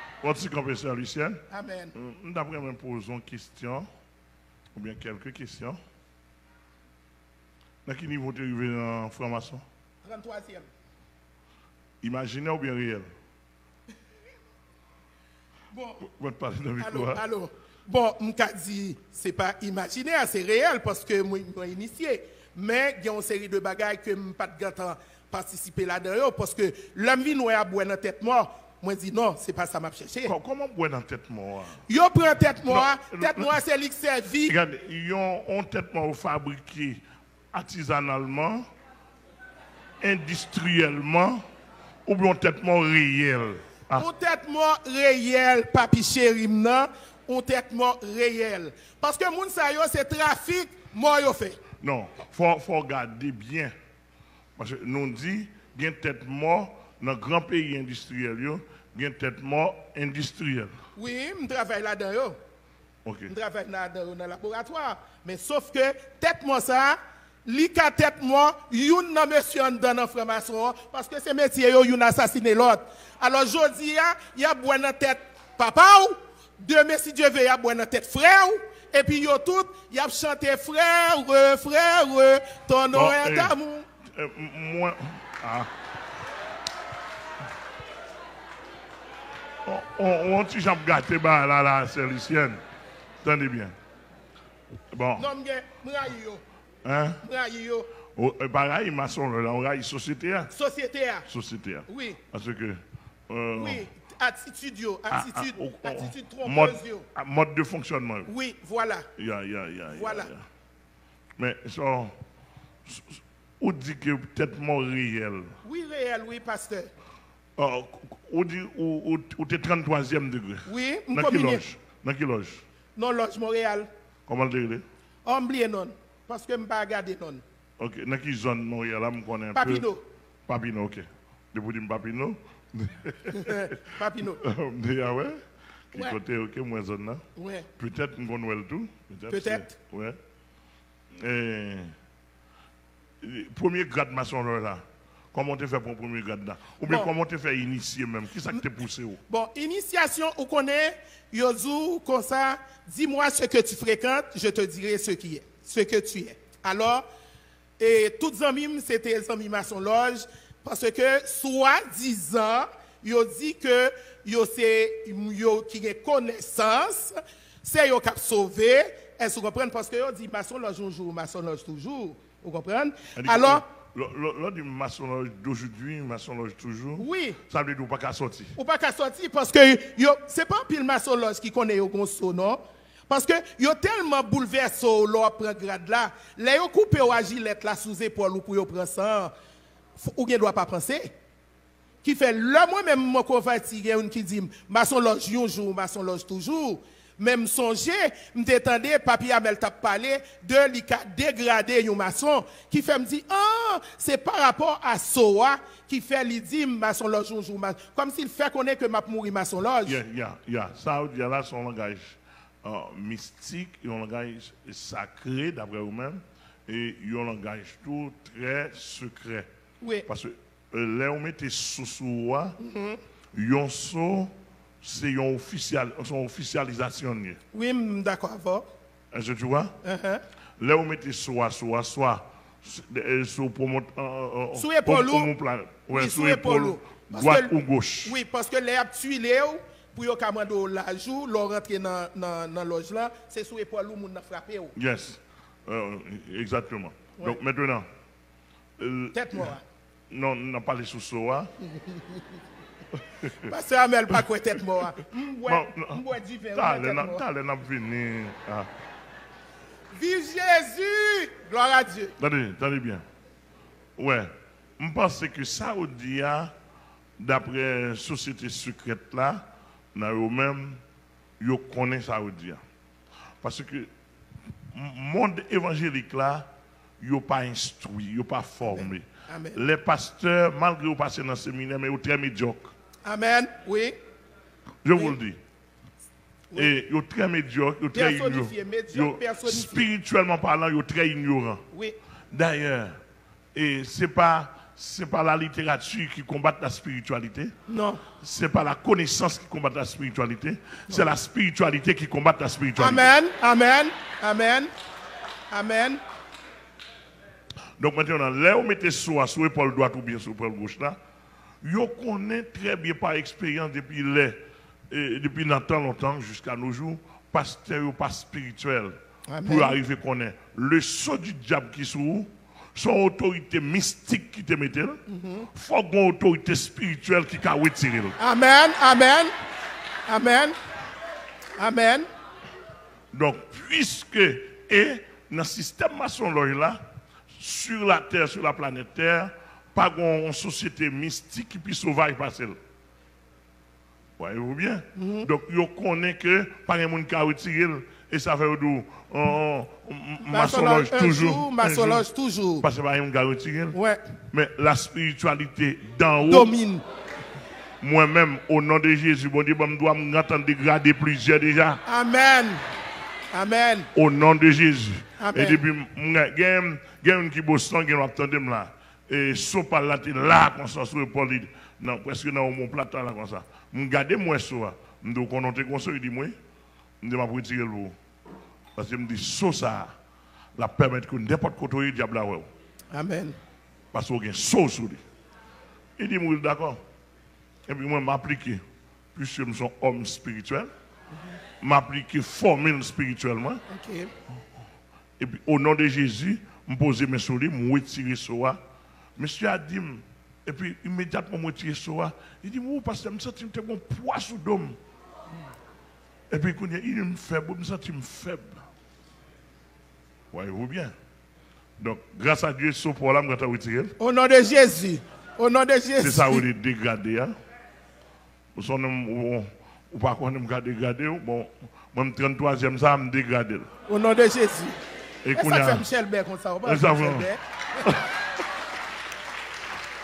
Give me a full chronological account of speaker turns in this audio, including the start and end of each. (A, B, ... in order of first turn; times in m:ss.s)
0:00.2-0:01.4 A
0:01.5-0:02.0 B
0:02.0-0:03.9 A
0:04.8-0:05.8 A
0:07.8-0:09.6 A
0:10.0-0:10.7 B
0:12.0-0:13.1 A
0:15.7-0:16.1 B
0:16.1-0:17.2 A
0:16.8-0:30.3 B
0:30.3-0:31.8 A
0:31.9-0:34.6 B
0:32.7-0:33.5 A
0:34.5-0:37.0 A
0:37.5-0:38.7 A
0:40.0-0:41.4 A
0:42.1-0:44.0 A
0:43.9-0:51.6 B
0:51.8-0:53.7 A
0:54.6-1:00.7 A
1:01.0-1:02.4 B
1:03.0-1:03.3 A
1:03.3-1:23.9 B
1:22.9-1:23.6 A
1:24.1-1:25.7 A
1:29.6-1:32.6 A
1:33.2-1:33.8 A
1:34.9-1:35.3 A
1:35.2-1:36.4 B
1:36.8-1:37.2 A
1:37.2-1:37.9 B
1:38.1-1:40.5 A
1:40.5-1:41.3 B
1:41.3-1:43.9 A
1:41.9-1:42.2 B
1:43.6-1:47.1 B
1:45.1-1:48.3 A
1:48.3-1:49.1 B
1:49.2-1:50.4 A
1:49.9-1:50.3 B
1:51.4-1:52.2 A
1:52.9-1:55.5 A
1:55.6-1:56.9 B
1:57.6-2:02.6 A
2:00.7-2:01.6 B
2:03.0-2:03.9 B
2:04.3-2:04.8 A
2:05.2-2:07.4 B
2:07.8-2:09.9 A
2:09.5-2:10.0 B
2:10.5-2:13.6 A
2:13.3-2:14.4 B
2:14.4-2:15.4 A
2:15.9-2:17.2 A
2:17.4-2:17.7 B
2:17.8-2:20.2 A
2:19.3-2:19.8 B
2:21.2-2:22.0 A
2:23.2-2:29.2 A
2:26.8-2:27.1 B
2:29.3-2:37.0 B
2:37.8-2:53.6 B
2:53.2-2:58.6 A
2:57.0-2:57.4 B
2:58.6-3:09.3 B
3:10.0-3:11.1 B
3:12.0-3:30.0 B
3:29.9-3:39.5 A
3:39.8-3:40.1 B
3:40.1-3:42.6 A
3:42.6-3:43.0 B
3:43.3-3:47.4 A
3:47.5-3:48.7 B
3:49.1-3:49.7 A
3:49.8-3:50.2 B
3:50.6-3:58.2 A
3:54.5-3:55.3 B
3:55.9-4:04.7 B
4:04.8-4:07.9 A
4:08.8-4:09.5 A
4:09.1-4:09.6 B
4:10.1-4:11.5 A
4:11.6-4:12.3 B
4:13.4-4:17.2 B
4:15.5-4:18.7 A
4:19.9-4:22.1 B
4:22.2-4:23.0 A
4:24.0-4:26.5 A
4:27.2-4:30.8 A
4:31.4-4:32.6 A
4:33.4-4:33.9 A
4:34.7-4:36.5 A
4:37.0-4:42.7 A
4:38.6-4:39.6 B
4:43.0-4:44.0 B
4:44.8-4:45.4 A
4:46.6-4:51.6 A
4:47.9-4:49.9 B
4:51.7-4:52.0 B
4:52.3-4:53.0 A
4:53.6-4:57.5 A
4:57.7-4:58.0 B
4:58.2-5:03.1 A
5:02.8-5:04.7 B
5:05.5-5:06.0 B
5:07.8-5:11.0 A
5:11.6-5:25.0 A
5:19.3-5:19.8 B
5:25.1-5:25.5 B
5:25.5-5:28.2 A
5:28.2-5:29.3 B
5:30.1-5:30.6 B
5:31.6-5:32.1 B
5:33.1-5:36.8 A
5:37.4-5:42.6 A
5:44.2-5:52.0 A
5:45.0-5:45.3 B
5:50.3-5:52.7 B
5:52.6-5:53.8 A
5:53.7-5:54.0 B
5:54.3-5:56.5 A
5:56.2-5:56.8 B
5:57.8-6:01.8 A
6:01.8-6:02.6 B
6:03.3-6:03.9 B
6:04.0-6:16.4 A
6:05.2-6:05.6 B
6:17.0-6:18.0 A
6:18.8-6:19.9 A
6:20.6-6:22.5 A
6:22.9-6:23.4 B
6:23.9-6:25.0 A
6:26.0-6:26.8 A
6:27.7-6:28.6 A
6:29.2-6:30.7 A
6:31.6-6:33.6 A
6:33.7-6:34.1 B
6:35.2-6:38.6 A
6:39.2-6:44.8 A
6:46.3-6:48.6 A
6:50.3-6:51.0 A
6:51.8-6:54.0 A
6:54.0-6:56.5 B
6:56.0-6:57.4 A
6:58.6-7:03.7 A
7:03.9-7:04.8 B
7:05.2-7:05.9 A
7:05.3-7:08.0 B
7:06.6-7:07.3 A